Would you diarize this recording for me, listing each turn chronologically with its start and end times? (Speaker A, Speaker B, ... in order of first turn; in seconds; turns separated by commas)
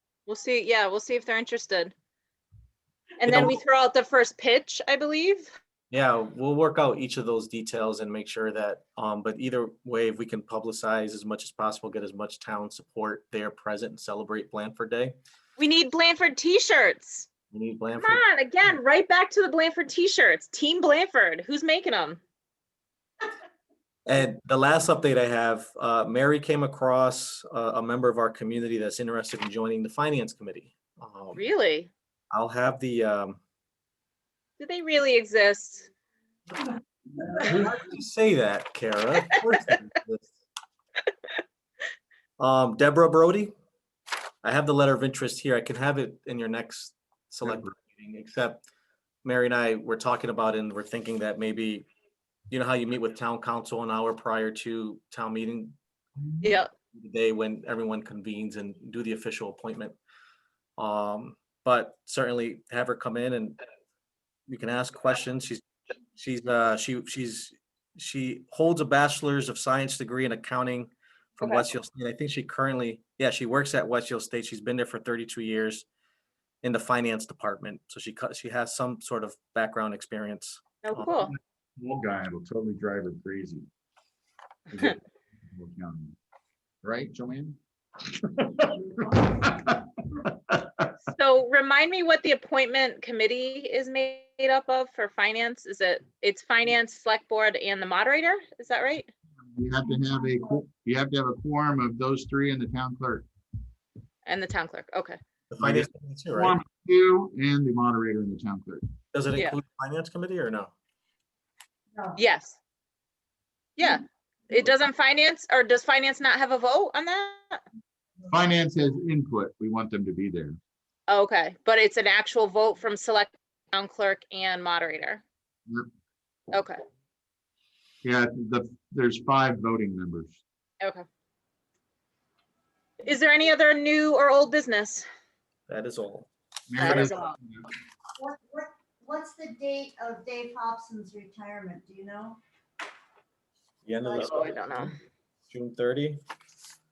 Speaker A: 0.3-1.9, Speaker A: 3.2-5.5, Speaker B: 3.2-3.6, Speaker B: 5.9-15.2, Speaker A: 15.6-17.3, Speaker B: 17.5-18.2, Speaker A: 18.0-22.2, Speaker B: 24.1-31.4, Speaker A: 31.3-31.9, Speaker B: 32.3-33.4, Speaker A: 34.6-35.9, Speaker B: 37.3-40.3, Speaker B: 42.4-43.5, Speaker B: 44.4-48.6, Speaker B: 49.2-51.9, Speaker B: 52.5-55.7, Speaker A: 56.4-56.7, Speaker B: 56.9-60.0, Speaker B: 60.8-63.6, Speaker B: 64.5-65.6, Speaker B: 66.2-75.8, Speaker A: 71.4-71.7, Speaker B: 76.6-81.0, Speaker A: 80.8-81.3, Speaker C: 81.1-83.7, Speaker C: 84.7-86.2, Speaker C: 86.8-87.6, Speaker C: 88.1-90.9, Speaker A: 91.0-99.1, Speaker C: 99.5-103.2, Speaker A: 104.2-105.2, Speaker B: 105.5-106.6, Speaker C: 105.6-108.8, Speaker B: 109.1-110.7, Speaker A: 112.1-112.6, Speaker A: 113.8-117.6, Speaker C: 118.3-120.6, Speaker A: 121.1-125.2, Speaker A: 126.5-126.8, Speaker C: 128.0-130.4, Speaker A: 133.0-135.1, Speaker B: 135.7-137.1, Speaker C: 136.7-137.6, Speaker A: 136.8-137.3, Speaker D: 138.2-142.4, Speaker B: 143.8-144.9, Speaker A: 144.1-144.9, Speaker B: 145.5-146.2